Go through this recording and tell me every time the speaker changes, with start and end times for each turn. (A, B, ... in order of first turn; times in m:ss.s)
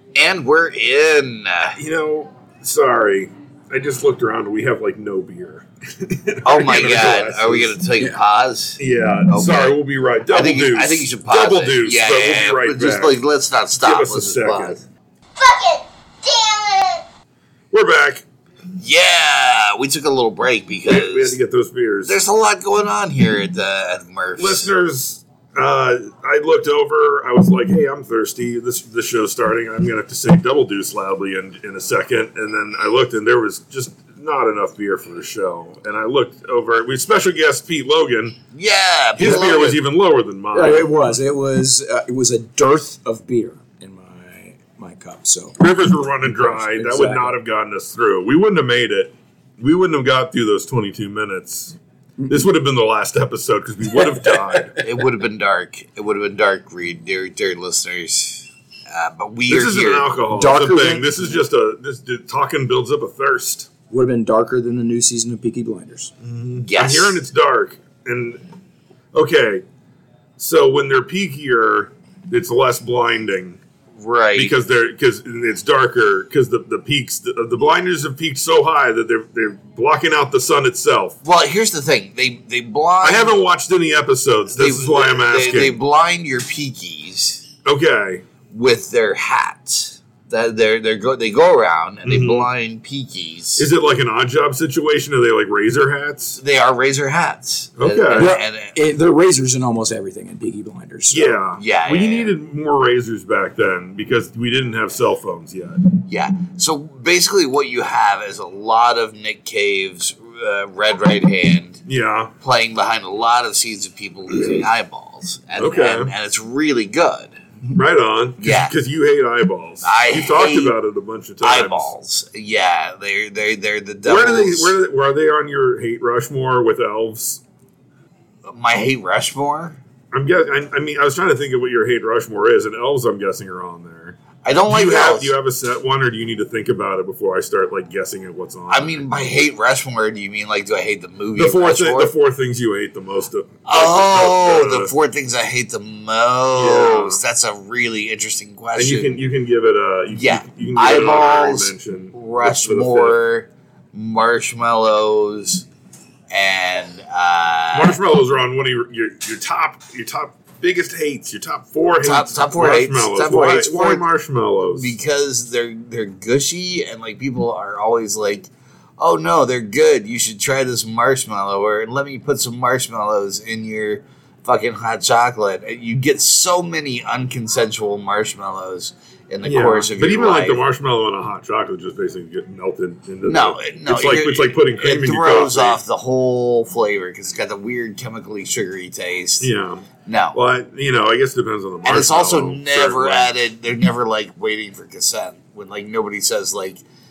0:00.1-0:01.8 A
0:01.8-0:07.7 B
0:06.4-0:09.8 A
0:08.8-0:13.2 B
0:10.3-0:14.8 A
0:13.8-0:14.8 B
0:15.4-0:17.0 A
0:17.7-0:18.2 B
0:18.8-0:21.4 A
0:20.8-0:22.2 B
0:22.0-0:24.7 A
0:24.4-0:38.4 B
0:38.5-0:39.8 A
0:39.2-0:40.9 B
0:40.5-0:45.6 C
0:45.6-0:51.8 B
0:46.2-0:47.4 C
0:52.3-0:54.8 B
0:54.0-0:54.6 C
0:54.8-1:00.1 A
0:59.5-1:03.7 B
1:00.3-1:01.4 C
1:03.9-1:06.1 C
1:06.2-1:08.4 B
1:06.6-1:07.2 A
1:09.1-1:09.6 B
1:10.4-1:13.6 B
1:14.0-1:14.5 A
1:14.4-1:21.2 B
1:21.2-1:23.3 A
1:23.0-1:25.8 B
1:24.5-1:27.5 A
1:27.6-1:28.2 B
1:28.5-1:33.7 A
1:32.0-1:32.5 B
1:33.6-1:36.4 B
1:36.4-1:38.8 A
1:37.8-1:38.3 B
1:38.2-1:41.4 C
1:41.1-1:45.8 B
1:41.5-1:42.3 A
1:46.1-1:51.8 A
1:51.8-1:52.3 B
1:52.4-1:57.4 A
1:55.6-1:56.1 B
1:57.7-2:01.9 B
1:58.4-1:58.7 A
1:59.8-2:00.7 A
2:01.4-2:04.7 A
2:04.0-2:07.4 B
2:08.4-2:09.8 A
2:10.1-2:19.0 B
2:14.4-2:15.3 A
2:18.7-2:22.1 A
2:21.4-2:24.9 B
2:23.6-2:29.2 A
2:26.5-2:27.2 B
2:28.8-2:33.2 B
2:30.1-2:35.6 A
2:36.3-2:38.0 A
2:37.7-2:44.9 B
2:42.0-2:44.0 A
2:44.7-3:00.6 A
2:59.4-3:05.8 B
3:03.2-3:09.5 A
3:09.4-3:13.3 B
3:10.0-3:10.4 A
3:11.8-3:16.8 A